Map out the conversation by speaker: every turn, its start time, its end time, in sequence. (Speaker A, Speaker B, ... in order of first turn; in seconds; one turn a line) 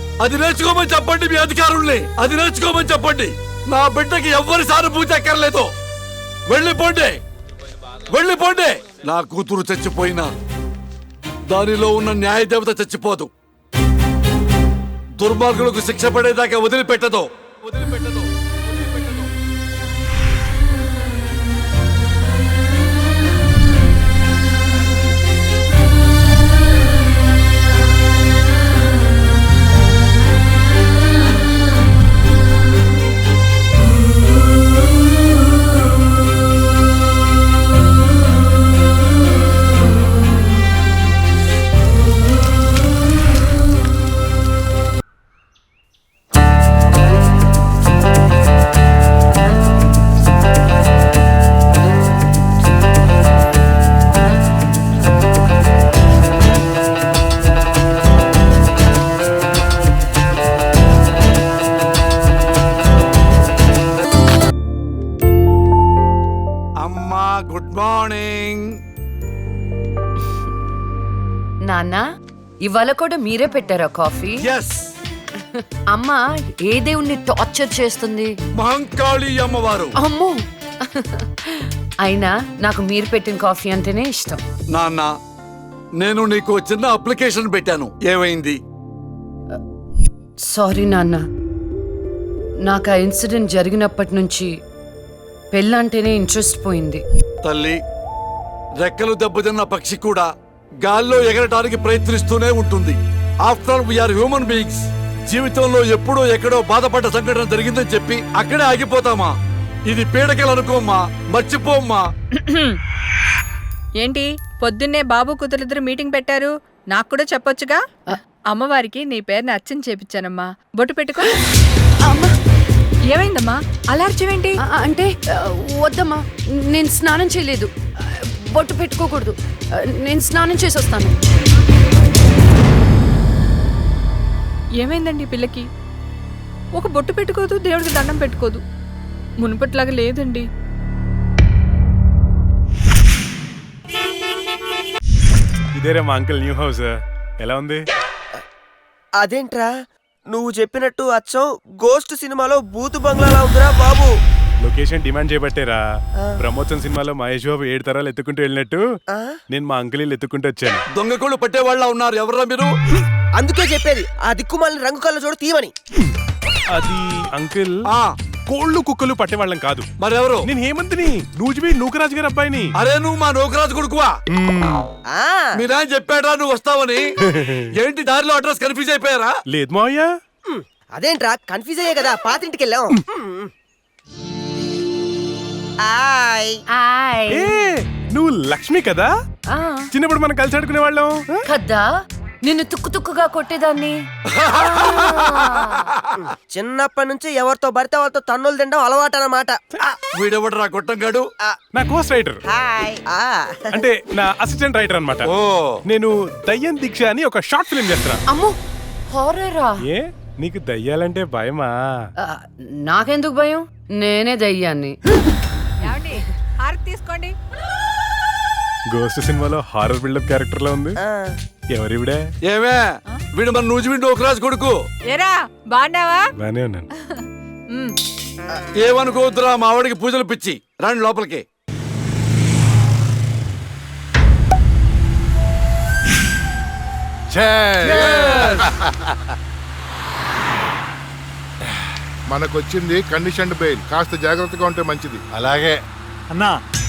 Speaker A: 0.2-5.7
Speaker A: 6.5-7.2
Speaker A: 8.1-10.3
Speaker A: 11.5-13.3
Speaker A: 15.2-19.3
Speaker A: 66.8-68.6
Speaker B: 71.7-72.0
Speaker B: 72.6-74.4
Speaker A: 74.4-74.7
Speaker B: 75.5-78.3
Speaker A: 78.6-79.9
Speaker B: 80.0-80.4
Speaker B: 80.9-84.4
Speaker A: 84.7-85.1
Speaker A: 86.0-88.6
Speaker B: 90.5-91.2
Speaker B: 92.7-94.5
Speaker B: 95.5-97.0
Speaker A: 97.4-97.8
Speaker A: 98.8-100.2
Speaker A: 100.8-109.3
Speaker A: 109.9-112.0
Speaker C: 112.4-112.8
Speaker C: 114.0-117.8
Speaker C: 118.5-121.4
Speaker B: 122.0-122.3
Speaker C: 123.1-124.6
Speaker B: 124.6-129.3
Speaker B: 130.0-131.2
Speaker C: 134.8-135.7
Speaker C: 136.8-138.6
Speaker C: 139.4-140.4
Speaker D: 145.8-147.9
Speaker E: 149.2-149.7
Speaker E: 150.3-154.1
Speaker D: 154.6-155.8
Speaker D: 156.4-158.8
Speaker E: 159.1-159.4
Speaker D: 159.5-160.8
Speaker A: 160.9-162.7
Speaker E: 163.4-165.7
Speaker D: 166.7-167.8
Speaker D: 168.5-169.9
Speaker A: 170.0-170.5
Speaker D: 170.4-172.7
Speaker A: 172.8-174.1
Speaker D: 174.4-174.8
Speaker E: 175.1-175.6
Speaker A: 175.5-177.0
Speaker A: 177.8-179.4
Speaker D: 179.5-180.1
Speaker E: 180.5-183.5
Speaker E: 185.8-186.6
Speaker B: 186.7-187.6
Speaker D: 187.3-189.1
Speaker B: 189.5-189.9
Speaker D: 189.9-191.3
Speaker B: 191.5-191.9
Speaker B: 192.4-194.0
Speaker A: 194.4-195.6
Speaker B: 194.6-195.9
Speaker E: 196.2-200.0
Speaker A: 200.2-201.2
Speaker D: 201.7-202.4
Speaker E: 202.5-203.9
Speaker D: 203.7-205.3
Speaker A: 205.2-205.8
Speaker D: 205.9-208.2
Speaker B: 208.3-208.6
Speaker B: 209.1-209.8
Speaker D: 209.8-211.8
Speaker B: 212.2-215.0
Speaker C: 215.8-217.3
Speaker D: 218.9-221.0
Speaker E: 221.0-221.4
Speaker D: 221.8-222.2
Speaker A: 222.5-224.8
Speaker C: 225.1-226.3
Speaker D: 226.4-226.8
Speaker C: 227.0-228.0
Speaker A: 228.8-231.4
Speaker F: 237.3-239.1
Speaker A: 237.9-238.7
Speaker G: 242.3-245.2
Speaker F: 245.3-245.8